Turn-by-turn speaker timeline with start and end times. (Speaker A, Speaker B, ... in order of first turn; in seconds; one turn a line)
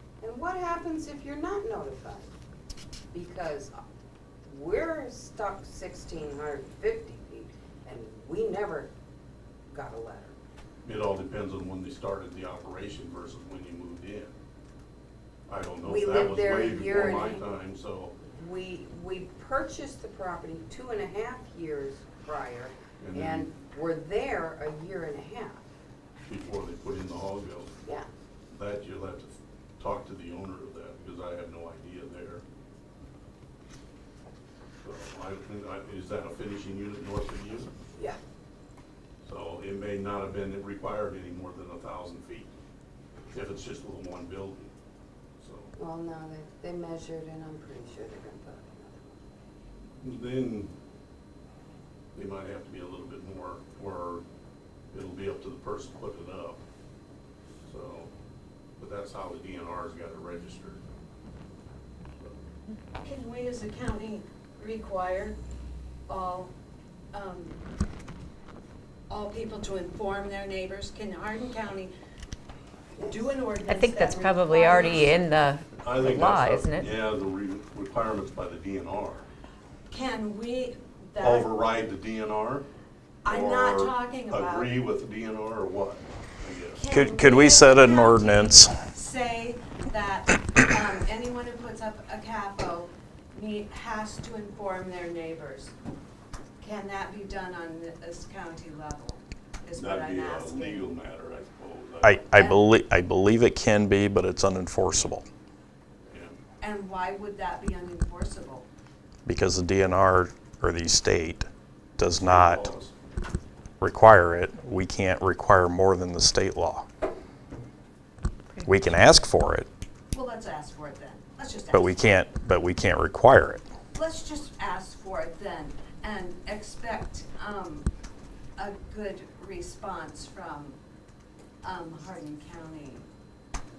Speaker A: 0.2-2.3
Speaker A: 3.1-3.8
Speaker A: 4.5-8.9
Speaker A: 9.7-10.4
Speaker B: 10.8-14.3
Speaker B: 15.5-18.2
Speaker A: 15.8-17.5
Speaker A: 18.2-25.6
Speaker B: 23.0-23.5
Speaker B: 26.3-27.7
Speaker B: 28.5-32.4
Speaker B: 34.8-37.7
Speaker B: 39.2-42.5
Speaker B: 43.3-44.7
Speaker B: 45.4-45.7
Speaker A: 45.8-49.2
Speaker B: 50.0-50.7
Speaker B: 52.1-54.2
Speaker B: 54.9-56.6
Speaker B: 57.6-58.1
Speaker B: 58.8-60.8
Speaker B: 62.1-62.4
Speaker C: 63.0-65.4
Speaker C: 66.1-66.5
Speaker C: 67.1-67.6
Speaker C: 69.1-71.9
Speaker A: 73.0-73.2
Speaker C: 73.1-75.2
Speaker D: 73.6-76.9
Speaker B: 75.8-79.3
Speaker C: 79.9-81.5
Speaker B: 81.2-82.7
Speaker C: 83.2-84.7
Speaker B: 83.3-86.9
Speaker C: 86.8-95.7
Speaker E: 86.9-88.7
Speaker C: 96.6-100.9
Speaker B: 99.7-102.2
Speaker E: 102.0-105.3
Speaker C: 102.4-102.6
Speaker B: 106.1-106.3
Speaker C: 106.6-108.7
Speaker E: 109.3-111.5
Speaker E: 112.0-112.7
Speaker B: 112.2-112.9
Speaker E: 113.8-116.9
Speaker E: 118.7-119.7
Speaker C: 120.1-122.1
Speaker E: 121.7-123.7
Speaker C: 123.9-127.9
Speaker C: 128.6-130.8
Speaker C: 131.6-133.1